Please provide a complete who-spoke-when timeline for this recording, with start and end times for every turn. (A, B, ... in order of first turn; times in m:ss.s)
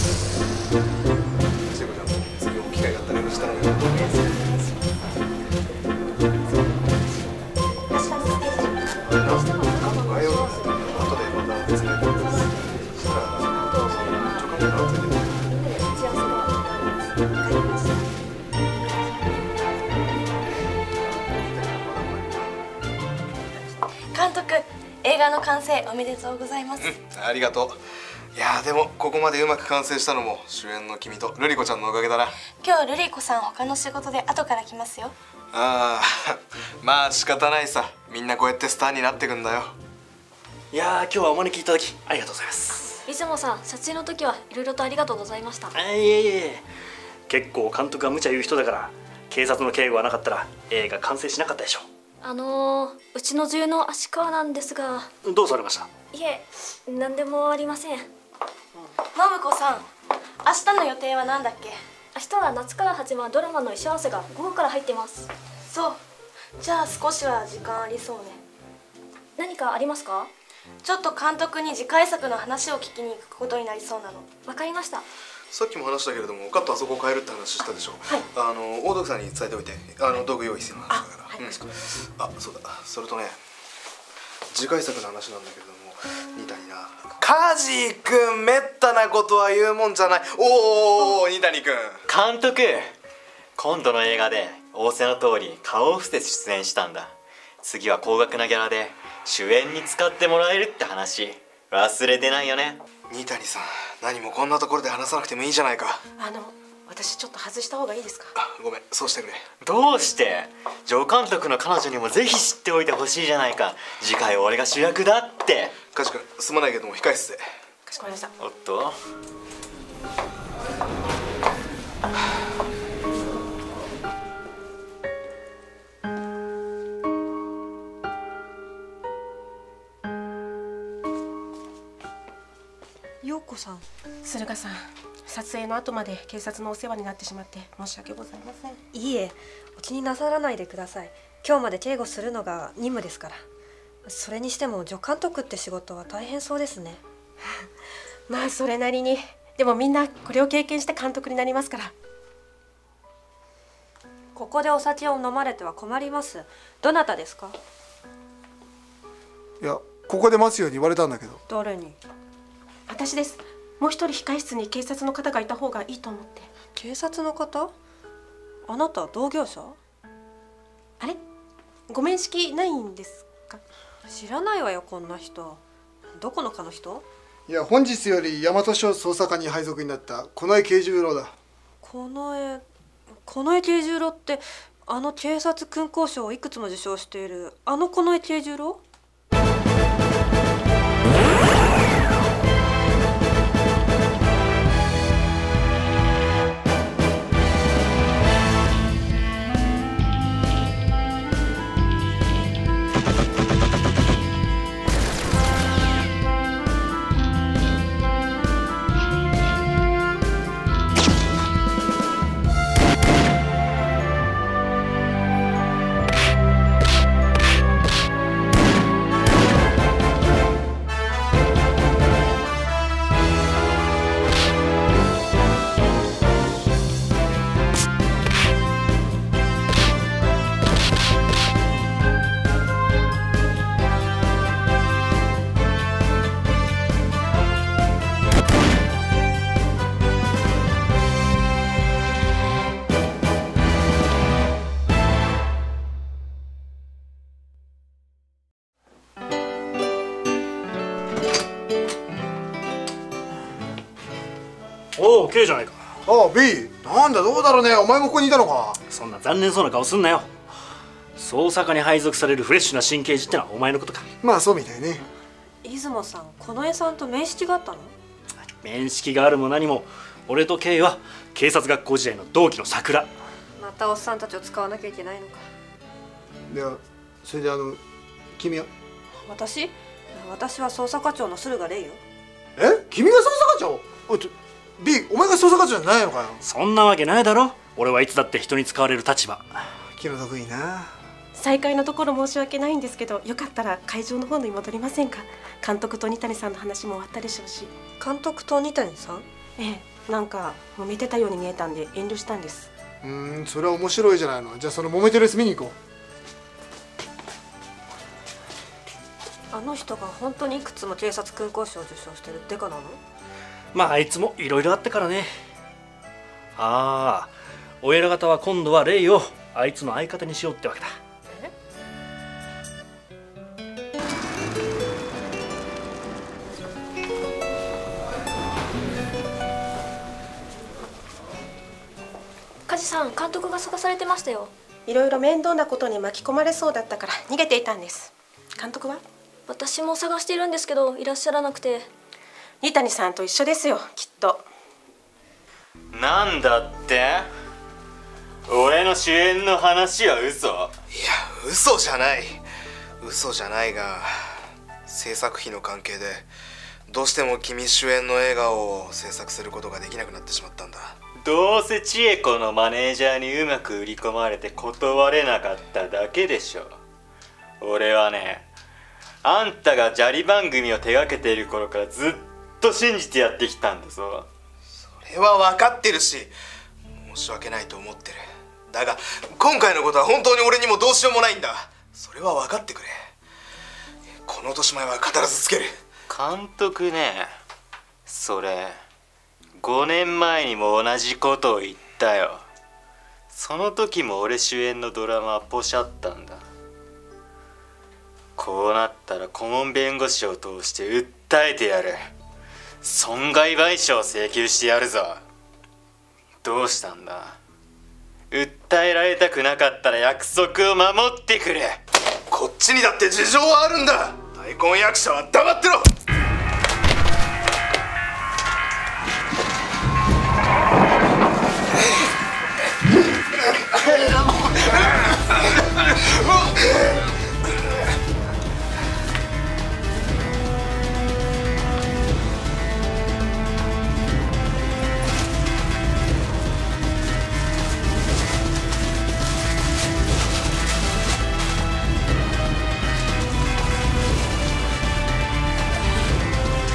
0:01.7-0:04.2 A
0:09.0-0:15.4 A
0:10.0-0:10.4 B
0:13.8-0:14.2 B
0:15.8-0:16.9 B
0:21.2-0:22.6 A
0:24.1-0:26.9 C
0:26.8-0:27.8 A
0:28.4-0:32.4 A
0:32.6-0:35.1 C
0:35.5-0:39.8 A
0:40.7-0:42.9 D
0:43.0-0:45.7 B
0:45.7-0:46.6 D
0:47.3-0:51.8 D
0:52.2-0:55.1 B
0:55.2-0:55.9 D
0:56.1-0:58.1 B
0:59.2-0:59.9 C
1:00.4-1:01.8 C
1:02.2-1:05.3 B
1:05.7-1:06.0 C
1:06.6-1:08.4 C
1:09.4-1:10.3 B
1:10.8-1:14.3 C
1:14.5-1:15.0 B
1:15.5-1:23.4 A
1:20.9-1:22.0 E
1:24.5-1:32.0 A
1:32.1-1:33.0 F
1:33.6-1:42.8 F
1:43.1-1:46.0 A
1:46.2-1:48.3 E
1:48.4-1:49.4 A
1:49.6-1:55.7 F
1:55.9-1:57.5 A
1:57.9-1:58.3 E
1:58.4-1:59.0 F
2:13.2-2:13.9 G
2:14.2-2:18.8 E
2:18.9-2:23.4 G
2:24.0-2:27.0 G
2:28.3-2:31.9 E
2:34.4-2:37.6 G
2:39.6-2:41.4 H
2:41.5-2:42.0 G
2:42.9-2:46.5 E
2:46.7-2:47.7 G
2:48.7-2:49.8 G
2:51.9-2:53.6 E
2:54.1-2:55.6 G
2:56.2-2:57.0 G
2:57.5-3:01.3 H
3:01.8-3:02.6 G
3:03.2-3:08.8 G
4:15.0-4:15.8 D
4:16.1-4:18.8 H
4:18.9-4:20.3 D
4:21.2-4:24.0 D
4:24.2-4:25.1 H
4:25.6-4:27.9 G
4:28.6-4:33.1 D
4:33.6-4:35.4 G
4:36.5-4:37.8 H
4:38.4-4:38.7 H
4:39.3-4:42.0 G
4:42.6-4:46.4 H
4:46.4-4:49.5 D
4:50.0-4:50.9 H
4:51.4-4:57.7 E
4:58.0-4:59.3 G
4:59.6-5:02.7 E
5:03.0-5:05.8 H
5:09.5-5:13.0 G
5:13.7-5:15.3 D
5:16.6-5:20.9 D
5:32.7-5:34.5 B
5:34.9-5:39.0 E
5:39.5-5:41.9 B
5:42.6-5:44.5 E
5:45.9-5:47.3 F
5:48.5-5:50.7 F
5:50.9-5:52.4 A
5:53.0-5:54.4 A
5:54.9-5:56.3 A
5:56.9-6:01.0 A
6:01.2-6:06.8 F
6:07.6-6:08.5 F
6:09.2-6:14.3 F
6:14.9-6:16.3 A
6:17.0-6:23.1 A
6:24.2-6:25.7 A
6:26.1-6:27.3 F
6:28.1-6:28.8 F
6:29.6-6:32.4 F
6:33.3-6:36.4 F
6:38.4-6:42.1 F
6:42.8-6:45.2 F
6:46.4-6:47.4 F
6:48.3-6:51.8 F
6:52.3-6:55.9 A